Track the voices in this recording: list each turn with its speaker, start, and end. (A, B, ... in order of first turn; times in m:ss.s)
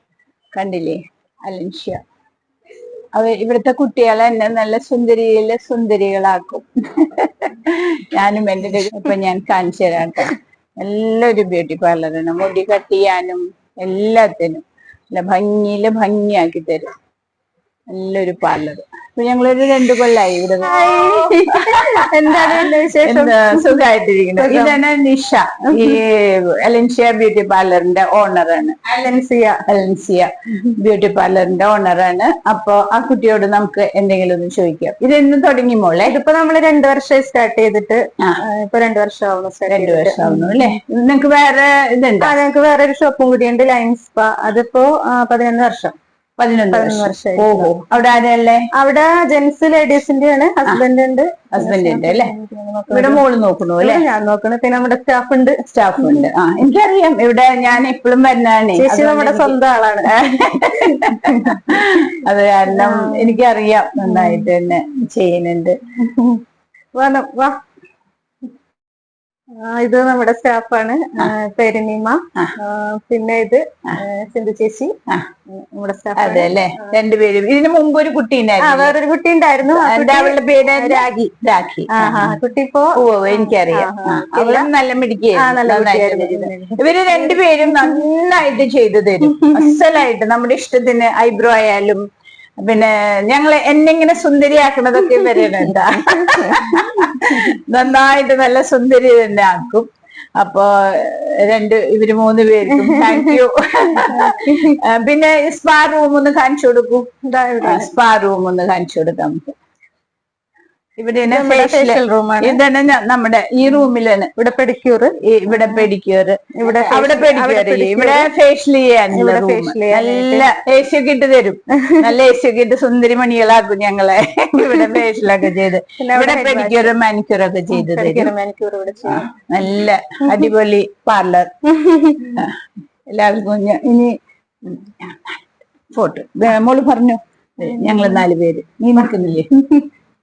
0:00.6-0:02.0 A
0:03.2-0:16.9 A
0:17.9-0:28.9 A
0:20.6-0:23.8 B
0:24.4-0:24.8 B
0:25.7-0:26.0 B
0:28.9-0:29.6 B
0:29.7-0:36.1 A
0:36.1-0:40.6 B
0:39.7-0:42.3 A
0:42.2-0:45.9 B
0:46.4-0:48.7 A
0:46.7-0:47.7 B
0:48.7-0:53.2 B
0:51.5-0:52.3 A
0:52.9-0:54.0 A
0:53.8-0:56.3 B
0:55.7-1:05.8 A
0:58.8-1:01.8 B
1:02.7-1:03.4 B
1:04.0-1:04.5 B
1:06.0-1:06.4 B
1:07.0-1:07.6 B
1:09.6-1:14.9 B
1:15.5-1:17.0 B
1:16.2-1:18.9 A
1:18.6-1:21.2 B
1:19.7-1:22.4 A
1:21.9-1:24.7 B
1:23.0-1:32.0 A
1:25.4-1:28.0 B
1:29.3-1:29.8 B
1:32.6-1:39.9 A
1:35.1-1:37.5 B
1:40.4-1:47.1 A
1:42.7-1:43.4 B
1:44.0-1:44.8 B
1:47.2-1:47.9 B
1:47.6-1:49.5 A
1:51.0-1:54.3 A
1:51.2-1:52.6 B
1:54.4-1:55.9 B
1:55.2-2:08.3 A
1:56.5-1:58.3 B
1:59.1-2:00.5 B
2:01.8-2:02.1 B
2:04.6-2:05.0 B
2:06.0-2:06.9 B
2:07.7-2:09.3 B
2:09.1-2:11.5 A
2:11.6-2:12.5 B
2:13.1-2:19.5 A
2:17.6-2:18.2 B